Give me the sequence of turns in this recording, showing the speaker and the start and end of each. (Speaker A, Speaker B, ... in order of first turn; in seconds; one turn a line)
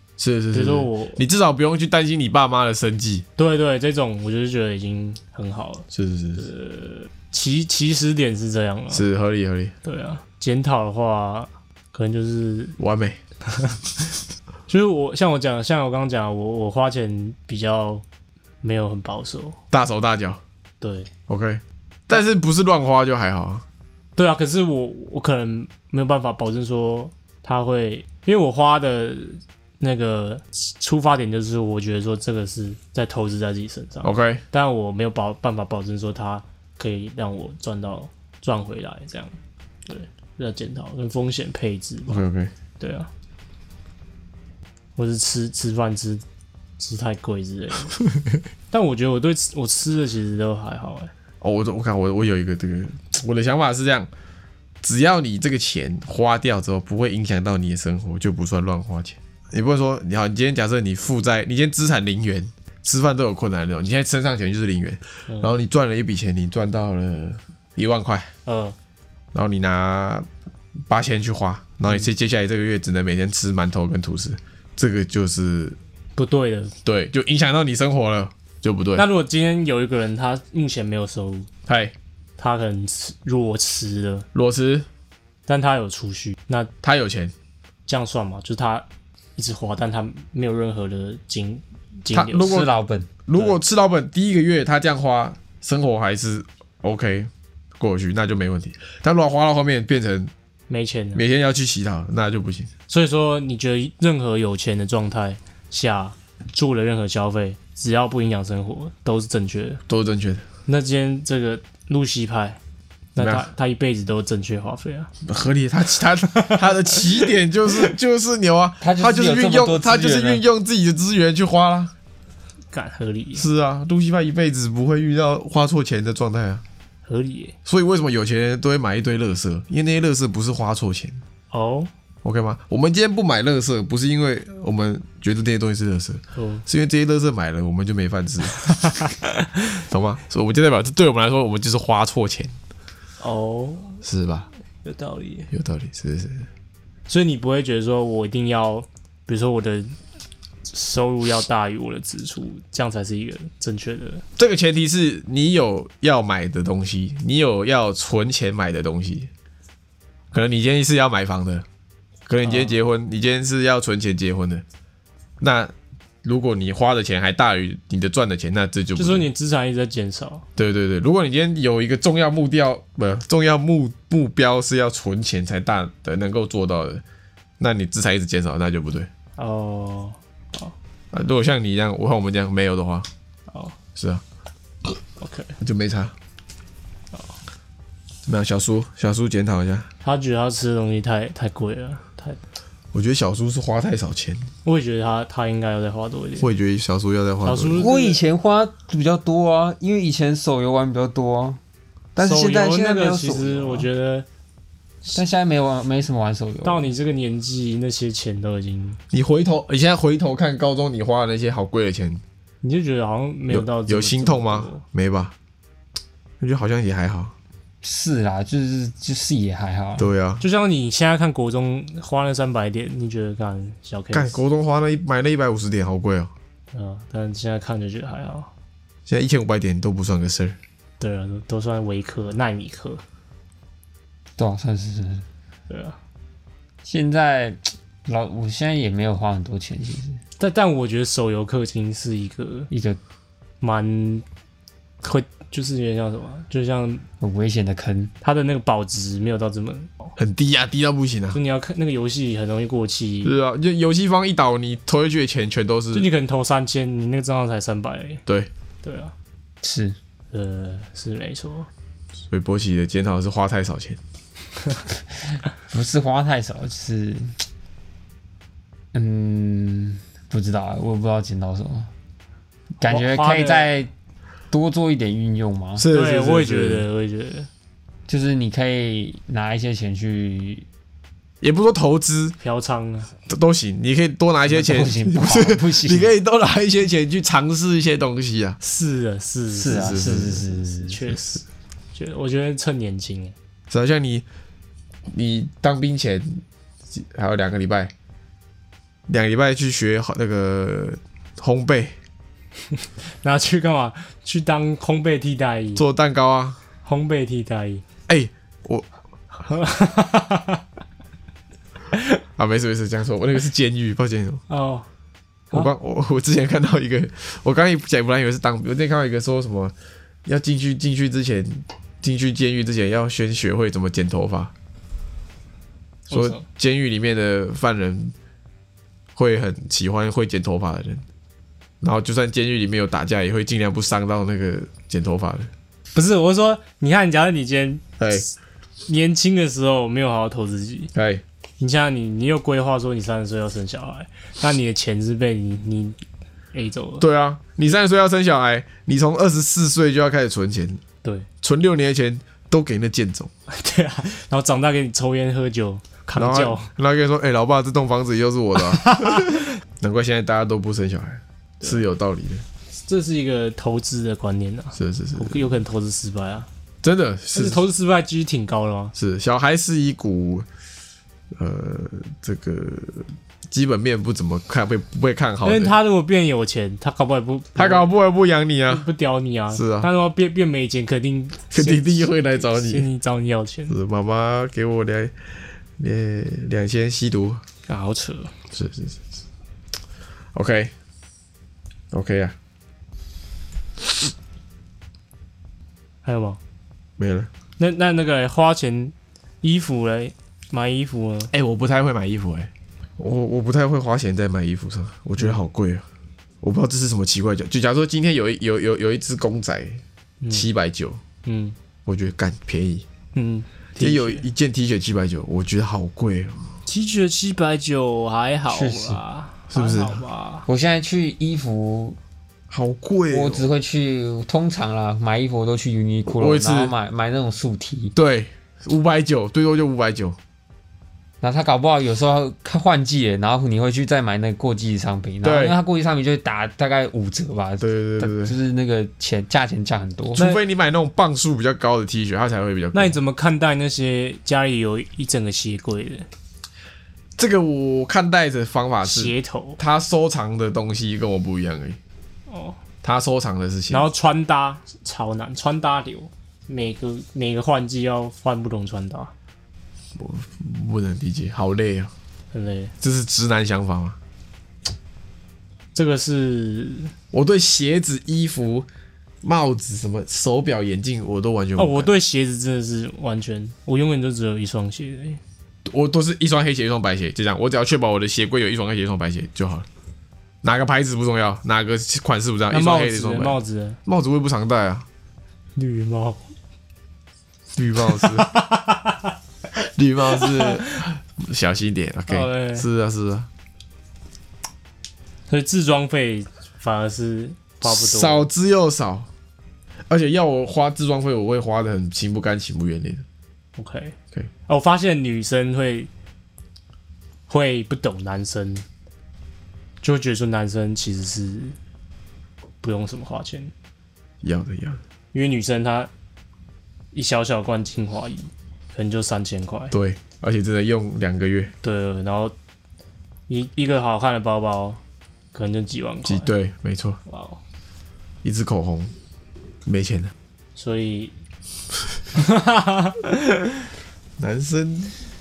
Speaker A: 0.2-3.2
Speaker B: 0.5-1.2
Speaker B: 3.4-9.1
Speaker A: 5.9-6.4
Speaker A: 8.9-9.7
Speaker B: 9.8-12.8
Speaker A: 12.8-13.2
Speaker B: 13.5-13.8
Speaker B: 14.7-18.0
Speaker B: 18.6-19.6
Speaker A: 19.7-20.4
Speaker B: 20.8-21.1
Speaker A: 21.3-23.6
Speaker B: 24.1-42.2
Speaker A: 34.0-34.4
Speaker A: 42.1-42.5
Speaker B: 42.8-43.1
Speaker B: 45.0-46.2
Speaker B: 46.8-47.9
Speaker B: 48.7-51.1
Speaker A: 51.4-54.1
Speaker A: 54.8-68.3
Speaker B: 68.5-68.8
Speaker A: 69.3-70.3
Speaker A: 70.9-75.8
Speaker B: 76.2-76.7
Speaker A: 76.8-79.0
Speaker B: 79.0-81.5
Speaker A: 81.7-81.9
Speaker B: 82.4-84.2
Speaker A: 84.3-84.9
Speaker B: 85.5-86.7
Speaker A: 86.8-87.3
Speaker B: 87.9-92.6
Speaker A: 92.1-92.7
Speaker C: 92.4-93.1
Speaker A: 93.3-100.3
Speaker B: 100.7-101.2
Speaker A: 101.1-102.7
Speaker B: 102.9-109.8
Speaker A: 109.9-110.4
Speaker B: 110.7-112.6
Speaker B: 113.1-115.1
Speaker A: 113.2-113.5
Speaker A: 115.2-121.9
Speaker C: 118.8-120.4
Speaker B: 122.7-123.5
Speaker A: 123.3-126.6
Speaker B: 127.1-127.5
Speaker A: 127.7-131.2
Speaker B: 131.5-131.9
Speaker A: 132.2-139.0
Speaker B: 136.3-136.6
Speaker A: 139.9-142.5
Speaker B: 143.2-144.0
Speaker A: 144.0-144.5
Speaker B: 144.8-145.5
Speaker A: 145.5-146.5
Speaker B: 147.1-149.9
Speaker B: 150.7-154.2
Speaker A: 154.4-159.3
Speaker A: 160.3-161.6
Speaker A: 162.3-164.6
Speaker B: 162.4-162.8
Speaker A: 165.4-165.7
Speaker A: 166.2-169.3
Speaker B: 168.9-170.4
Speaker A: 170.6-177.0
Speaker A: 177.6-179.1
Speaker B: 179.4-180.7
Speaker A: 181.1-183.1
Speaker B: 183.5-183.8
Speaker A: 183.9-184.2
Speaker B: 185.2-185.5
Speaker A: 185.6-186.1
Speaker A: 188.2-189.9
Speaker B: 190.0-192.4
Speaker A: 192.9-194.5
Speaker B: 194.6-196.5
Speaker A: 196.4-197.8
Speaker B: 197.4-198.2
Speaker C: 197.8-201.6
Speaker C: 202.2-203.9
Speaker B: 202.2-204.2
Speaker C: 205.1-206.9
Speaker B: 206.6-209.0
Speaker A: 209.1-212.2
Speaker B: 212.6-214.8
Speaker A: 213.5-215.3
Speaker A: 216.4-217.3
Speaker C: 217.8-220.1
Speaker A: 220.0-220.4
Speaker B: 220.4-224.4
Speaker A: 224.1-226.3
Speaker B: 226.7-228.5
Speaker A: 229.1-230.6
Speaker B: 231.0-233.0
Speaker C: 234.4-235.2
Speaker B: 235.7-236.0
Speaker C: 236.8-240.2
Speaker B: 240.4-242.7
Speaker C: 242.7-243.0
Speaker B: 243.6-244.2
Speaker B: 245.0-247.0
Speaker C: 247.2-248.1
Speaker B: 248.2-250.2
Speaker A: 250.2-251.4
Speaker B: 251.3-253.3
Speaker A: 253.2-256.1
Speaker B: 255.9-258.2
Speaker B: 258.8-259.1
Speaker C: 259.6-259.9
Speaker B: 260.3-261.7
Speaker A: 262.3-264.0
Speaker C: 265.7-267.4
Speaker C: 268.9-271.9
Speaker C: 272.8-273.9
Speaker B: 272.8-273.7
Speaker C: 274.5-275.8
Speaker A: 275.8-276.8
Speaker B: 275.9-277.5
Speaker C: 278.1-280.6
Speaker A: 281.4-282.4
Speaker B: 282.4-283.1
Speaker A: 283.3-288.6
Speaker C: 284.5-286.1
Speaker B: 288.6-291.4
Speaker C: 289.5-291.0
Speaker A: 289.7-290.4
Speaker B: 291.9-293.3
Speaker A: 293.7-294.2
Speaker A: 295.1-297.9
Speaker A: 299.1-301.9
Speaker B: 303.2-305.8
Speaker A: 305.8-306.6
Speaker B: 306.8-307.8
Speaker A: 308.1-308.9
Speaker B: 309.4-310.6
Speaker A: 312.4-314.4
Speaker B: 314.5-314.9
Speaker A: 315.5-319.7
Speaker A: 320.2-324.5
Speaker B: 326.1-326.4
Speaker A: 326.1-328.1
Speaker A: 329.1-331.0
Speaker A: 331.8-335.5
Speaker B: 335.9-338.3
Speaker A: 338.0-338.2
Speaker B: 338.9-340.9
Speaker A: 340.9-341.2
Speaker B: 341.6-346.0
Speaker B: 346.5-347.0
Speaker A: 347.0-350.8
Speaker A: 351.4-353.3
Speaker B: 353.5-356.7
Speaker A: 356.1-362.4
Speaker B: 358.6-359.5
Speaker B: 362.8-366.5
Speaker A: 364.8-365.5
Speaker A: 366.8-367.6
Speaker B: 367.3-368.9
Speaker A: 368.9-370.5
Speaker A: 371.3-375.7
Speaker B: 375.4-377.9
Speaker A: 377.6-378.9
Speaker B: 378.7-383.8
Speaker A: 379.5-379.9
Speaker A: 381.5-382.9
Speaker A: 383.7-385.1
Speaker A: 385.8-387.4
Speaker B: 387.7-388.3
Speaker A: 388.5-389.0
Speaker A: 390.3-390.7
Speaker A: 391.9-392.4
Speaker B: 396.0-396.4
Speaker A: 397.0-397.3
Speaker B: 397.6-401.3
Speaker A: 401.3-405.8
Speaker A: 406.4-411.0
Speaker B: 411.2-411.5
Speaker A: 411.9-412.8
Speaker B: 413.1-414.2
Speaker A: 413.8-416.5
Speaker B: 416.6-420.4
Speaker C: 418.5-419.0
Speaker A: 419.5-420.0
Speaker C: 420.4-422.0
Speaker A: 422.5-423.5
Speaker C: 423.1-427.9
Speaker A: 426.2-426.7
Speaker A: 427.9-430.2
Speaker C: 431.2-440.2
Speaker A: 435.2-435.6
Speaker A: 437.6-438.4
Speaker A: 440.1-442.9
Speaker B: 442.7-446.1
Speaker A: 447.2-451.8
Speaker B: 448.8-449.6
Speaker B: 452.3-452.6
Speaker A: 452.8-453.9
Speaker B: 453.7-459.1
Speaker A: 460.0-461.9
Speaker B: 462.3-462.7
Speaker A: 462.8-464.0
Speaker B: 465.7-466.9
Speaker A: 467.1-468.7
Speaker A: 469.2-471.9
Speaker B: 471.6-475.2
Speaker A: 475.6-479.6
Speaker A: 480.4-484.9
Speaker B: 482.5-483.8
Speaker B: 485.6-486.2
Speaker A: 487.5-488.3
Speaker B: 487.9-489.1
Speaker A: 489.5-493.3
Speaker B: 490.1-490.8
Speaker B: 492.1-492.7
Speaker B: 495.3-498.2
Speaker A: 497.6-499.1
Speaker A: 499.9-503.0
Speaker B: 503.6-503.9
Speaker B: 504.5-505.9
Speaker B: 507.3-508.6
Speaker B: 509.8-511.6
Speaker B: 512.6-513.5
Speaker A: 514.2-514.8
Speaker B: 515.1-515.9
Speaker B: 516.9-519.7
Speaker A: 519.7-521.5
Speaker B: 521.6-522.3
Speaker B: 523.3-524.8
Speaker B: 525.3-526.3
Speaker A: 526.0-527.0
Speaker B: 527.0-527.4
Speaker A: 528.2-528.9
Speaker A: 529.6-530.1
Speaker B: 530.5-531.1
Speaker B: 532.1-533.5
Speaker A: 534.2-535.0